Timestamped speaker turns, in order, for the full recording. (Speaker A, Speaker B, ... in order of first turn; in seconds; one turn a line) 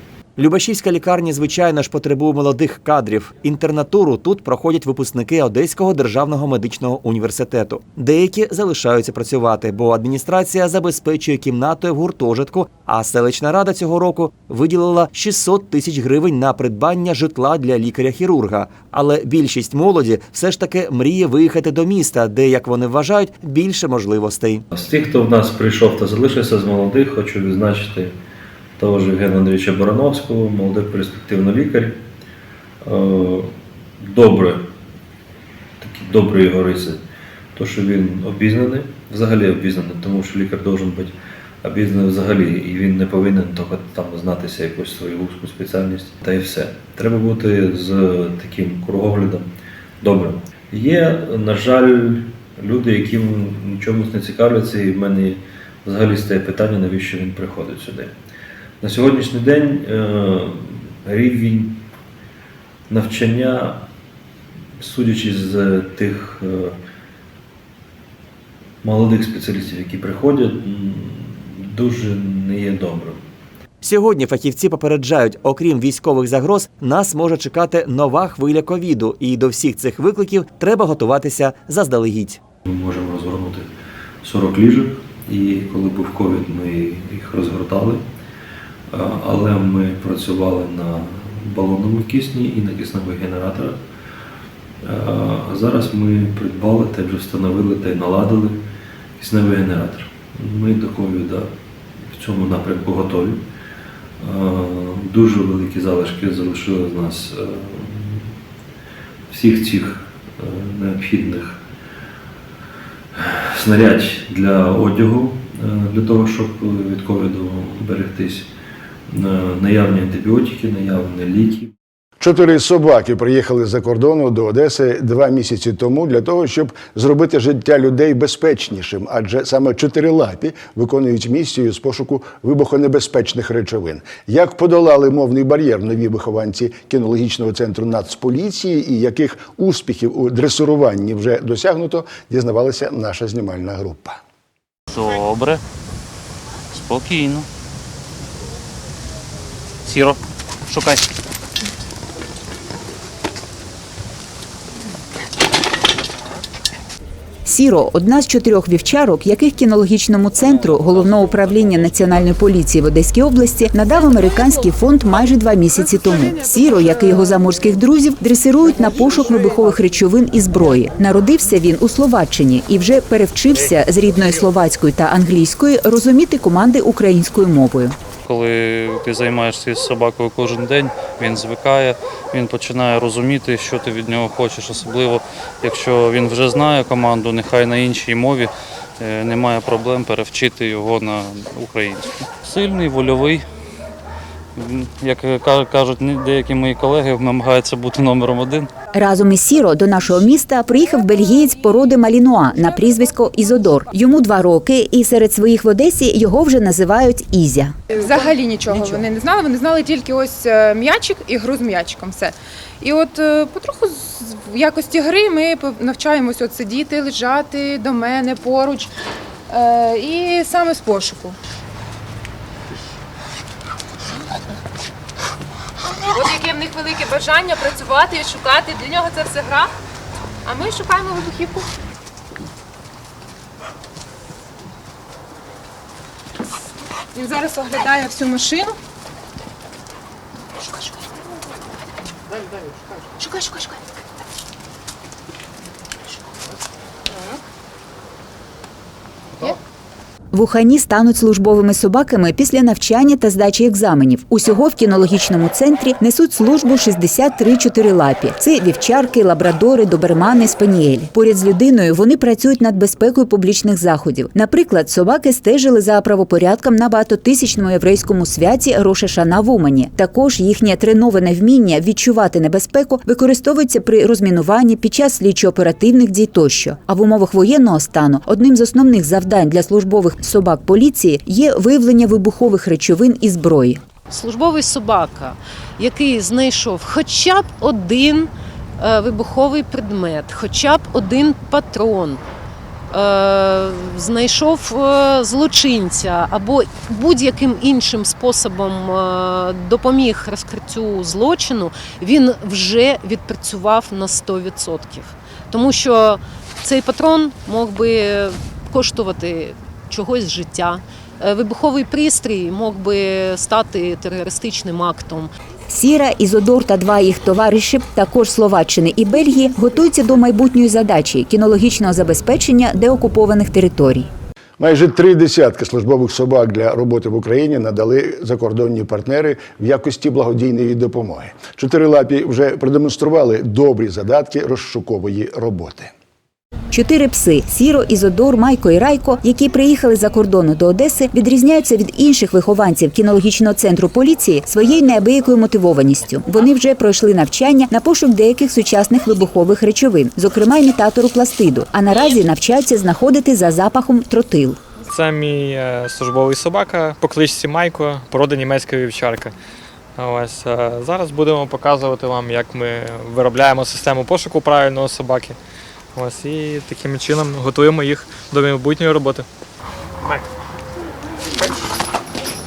Speaker A: 0.4-24.6
Speaker B: 24.7-28.1
Speaker B: 28.8-32.0
Speaker B: 32.8-34.7
Speaker B: 35.8-37.0
Speaker B: 37.5-49.5
Speaker B: 50.0-58.1
Speaker B: 58.8-61.8
Speaker B: 62.9-63.8
Speaker B: 64.8-66.8
Speaker B: 68.8-73.3
Speaker A: 73.8-82.4
Speaker B: 82.7-83.7
Speaker B: 84.2-88.0
Speaker B: 88.9-93.8
Speaker B: 94.8-98.6
Speaker B: 99.2-101.5
Speaker B: 102.0-103.4
Speaker B: 104.2-108.3
Speaker B: 109.3-111.6
Speaker B: 113.1-118.5
Speaker B: 119.1-121.7
Speaker C: 122.2-144.2
Speaker D: 144.9-145.6
Speaker D: 146.7-147.5
Speaker D: 149.8-151.0
Speaker E: 157.5-178.0
Speaker D: 178.2-193.4
Speaker D: 194.6-198.7
Speaker E: 198.9-207.8
Speaker F: 207.9-218.9
Speaker F: 219.5-221.4
Speaker F: 225.9-229.7
Speaker F: 230.4-231.7
Speaker F: 237.1-238.8
Speaker F: 240.6-241.2
Speaker F: 243.2-243.8
Speaker F: 247.1-247.4
Speaker E: 250.3-283.8
Speaker G: 284.1-292.2
Speaker G: 292.9-315.3
Speaker E: 315.7-324.1
Speaker C: 324.6-335.9
Speaker E: 336.7-354.6
Speaker H: 354.9-359.3
Speaker H: 360.0-365.4
Speaker H: 365.9-369.3